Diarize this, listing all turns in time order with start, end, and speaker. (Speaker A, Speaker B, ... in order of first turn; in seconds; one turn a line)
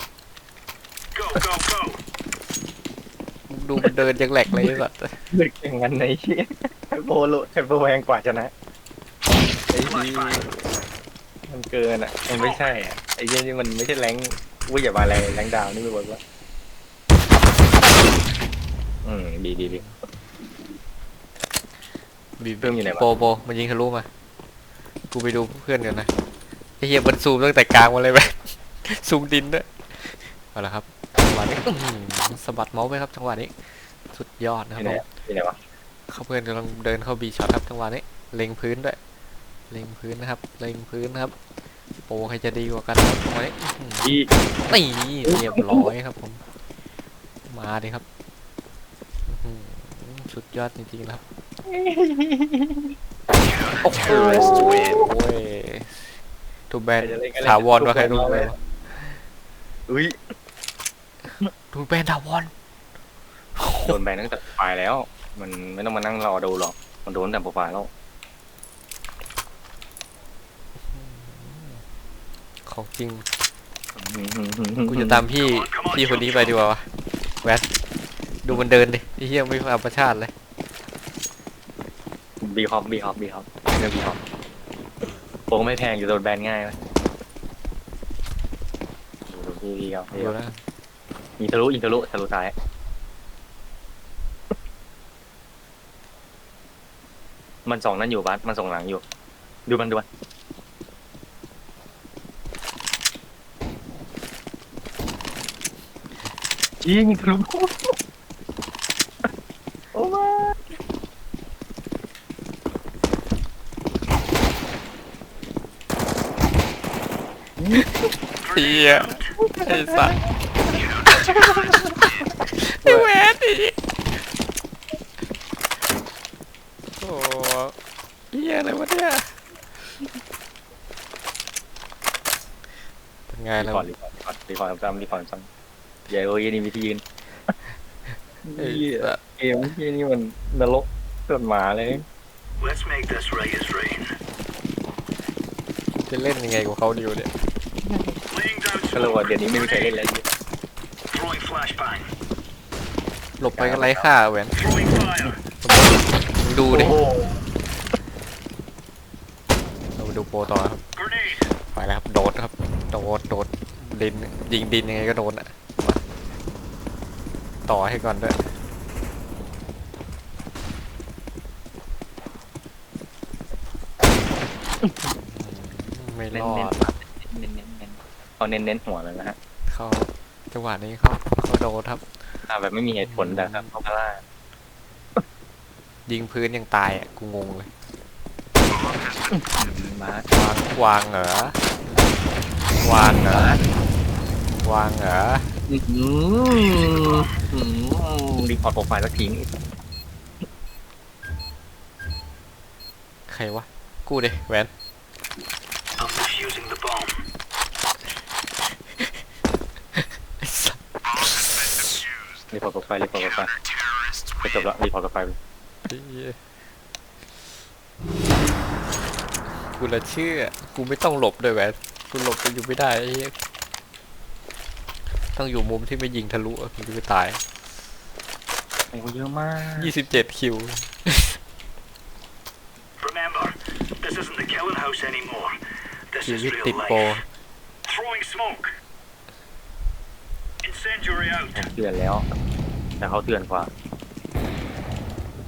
Speaker A: 1.1-2.0
Speaker B: 3.5-5.2
Speaker C: 5.3-8.5
Speaker C: 9.7-10.5
Speaker A: 9.8-10.5
Speaker C: 11.5-16.2
Speaker A: 12.3-12.6
Speaker C: 19.0-19.9
Speaker B: 19.6-19.9
Speaker B: 22.4-24.1
Speaker C: 22.6-23.1
Speaker B: 25.1-26.1
Speaker B: 26.8-35.0
Speaker C: 34.8-35.6
Speaker B: 36.1-39.0
Speaker B: 39.7-41.3
Speaker B: 42.1-44.1
Speaker C: 44.0-44.3
Speaker B: 44.7-46.4
Speaker C: 45.3-45.9
Speaker B: 47.5-48.0
Speaker B: 49.3-51.2
Speaker C: 51.7-52.9
Speaker B: 53.8-56.2
Speaker C: 53.9-55.0
Speaker B: 56.7-59.1
Speaker C: 57.0-58.5
Speaker C: 59.9-60.2
Speaker B: 61.7-62.5
Speaker B: 63.5-64.0
Speaker C: 63.8-67.9
Speaker B: 70.9-71.8
Speaker B: 72.7-73.2
Speaker C: 74.0-75.2
Speaker B: 74.9-76.8
Speaker A: 75.4-76.5
Speaker B: 78.4-80.3
Speaker C: 82.4-84.2
Speaker C: 85.5-86.8
Speaker C: 89.3-90.3
Speaker B: 90.1-90.6
Speaker C: 91.4-92.5
Speaker C: 97.7-99.0
Speaker C: 99.7-100.0
Speaker C: 106.8-107.9
Speaker C: 109.9-110.6
Speaker C: 117.6-117.9
Speaker A: 118.4-119.3
Speaker B: 118.5-120.2
Speaker C: 119.4-120.1
Speaker B: 121.1-123.8
Speaker B: 126.9-127.7
Speaker B: 128.3-129.4
Speaker B: 133.3-133.9
Speaker C: 133.6-135.5
Speaker C: 136.1-137.0
Speaker C: 138.4-142.0
Speaker B: 138.6-139.2
Speaker A: 142.6-144.1
Speaker B: 145.9-147.3
Speaker C: 147.8-148.2
Speaker A: 148.3-149.9
Speaker C: 148.9-150.2
Speaker A: 151.1-152.1
Speaker B: 153.4-154.6
Speaker C: 153.6-154.1
Speaker A: 154.5-155.3
Speaker B: 155.6-156.9
Speaker C: 156.7-157.4
Speaker B: 160.0-160.8
Speaker A: 161.0-161.4
Speaker B: 161.7-166.0
Speaker B: 167.7-168.5
Speaker C: 174.8-175.1
Speaker B: 175.2-176.8
Speaker C: 176.3-179.3
Speaker B: 179.7-182.4
Speaker C: 182.5-184.2
Speaker B: 183.0-183.7
Speaker B: 186.1-187.7
Speaker C: 189.3-190.2
Speaker B: 190.3-191.6
Speaker B: 192.8-193.5
Speaker C: 193.0-193.6
Speaker B: 194.6-195.5
Speaker C: 195.7-199.5
Speaker A: 196.8-197.3
Speaker B: 203.3-204.7
Speaker A: 206.0-207.2
Speaker B: 209.9-211.8
Speaker C: 212.5-213.5
Speaker C: 214.4-215.4
Speaker B: 215.8-216.4
Speaker B: 219.7-223.3
Speaker B: 225.3-227.4
Speaker C: 228.9-229.9
Speaker B: 229.8-231.4
Speaker A: 233.0-235.6
Speaker A: 236.1-237.1
Speaker B: 236.2-237.2
Speaker A: 237.8-238.7
Speaker A: 240.6-241.7
Speaker C: 241.5-242.3
Speaker C: 243.0-243.7